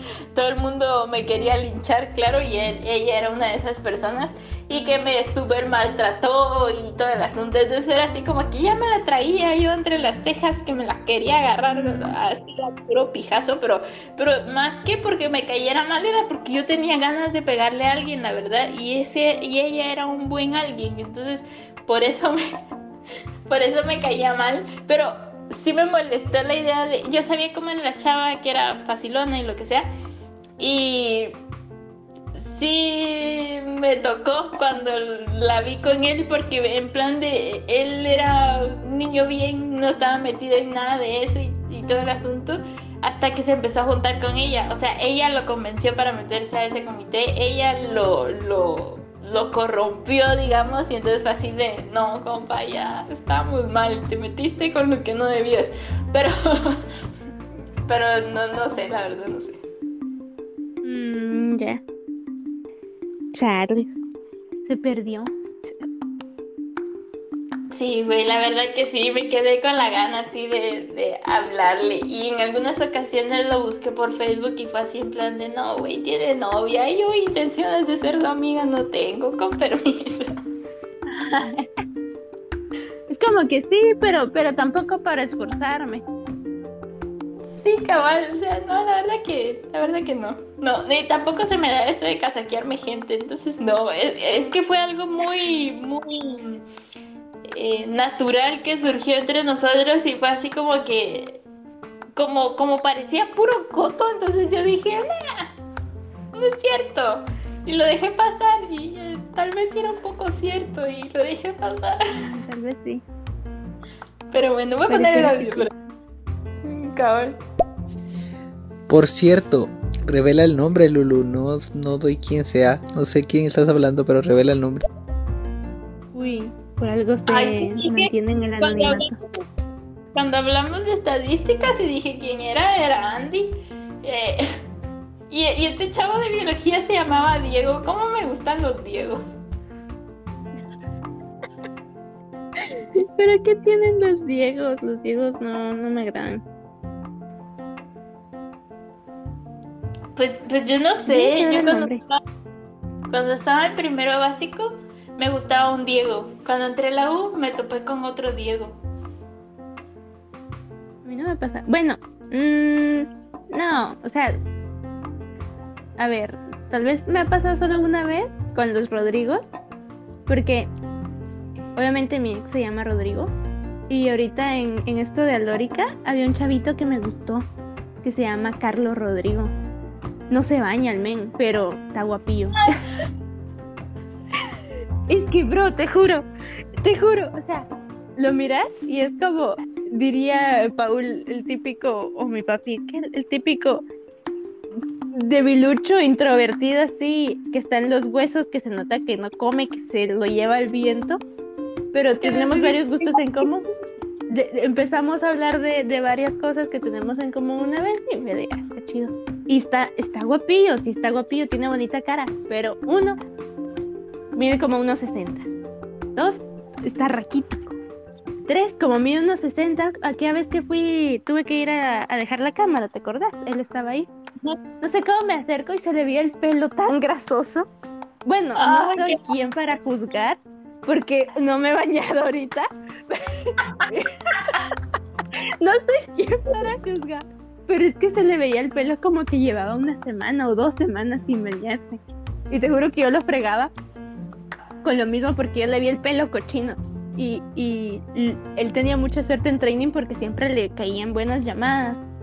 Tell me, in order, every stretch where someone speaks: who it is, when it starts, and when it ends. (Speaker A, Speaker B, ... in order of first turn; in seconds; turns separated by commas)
Speaker A: 0.3-22.6, Speaker B: 11.7-12.1, Speaker A: 23.5-29.9, Speaker A: 30.6-31.4, Speaker A: 32.4-56.8, Speaker A: 57.9-59.6, Speaker B: 60.8-61.8, Speaker B: 63.4-63.9, Speaker B: 64.6-65.8, Speaker A: 67.7-80.3, Speaker B: 81.1-81.7, Speaker B: 83.1-86.1, Speaker A: 87.5-96.6, Speaker A: 97.4-101.4, Speaker A: 102.2-105.5, Speaker A: 106.3-112.1, Speaker B: 112.2-113.0, Speaker A: 114.3-115.7, Speaker B: 114.9-115.7, Speaker A: 116.6-117.4, Speaker C: 118.9-124.8, Speaker B: 126.1-129.2, Speaker A: 127.3-129.5, Speaker A: 130.1-134.5, Speaker A: 135.3-139.4, Speaker B: 142.8-146.4, Speaker A: 150.2-152.2, Speaker B: 151.1-152.0, Speaker A: 153.1-158.8, Speaker B: 161.1-164.4, Speaker B: 166.0-169.5, Speaker B: 170.3-170.7, Speaker B: 171.8-173.3, Speaker B: 173.9-177.5, Speaker B: 178.0-179.5, Speaker B: 180.3-182.8, Speaker B: 185.1-186.2, Speaker B: 186.8-193.8, Speaker B: 195.1-201.2, Speaker B: 201.9-203.7, Speaker A: 202.2-203.5, Speaker B: 204.3-213.2, Speaker B: 214.3-215.5, Speaker B: 216.2-217.8, Speaker B: 218.5-224.1, Speaker B: 224.8-227.7, Speaker B: 228.3-234.6, Speaker A: 228.6-229.2, Speaker B: 235.6-243.7, Speaker B: 244.8-252.1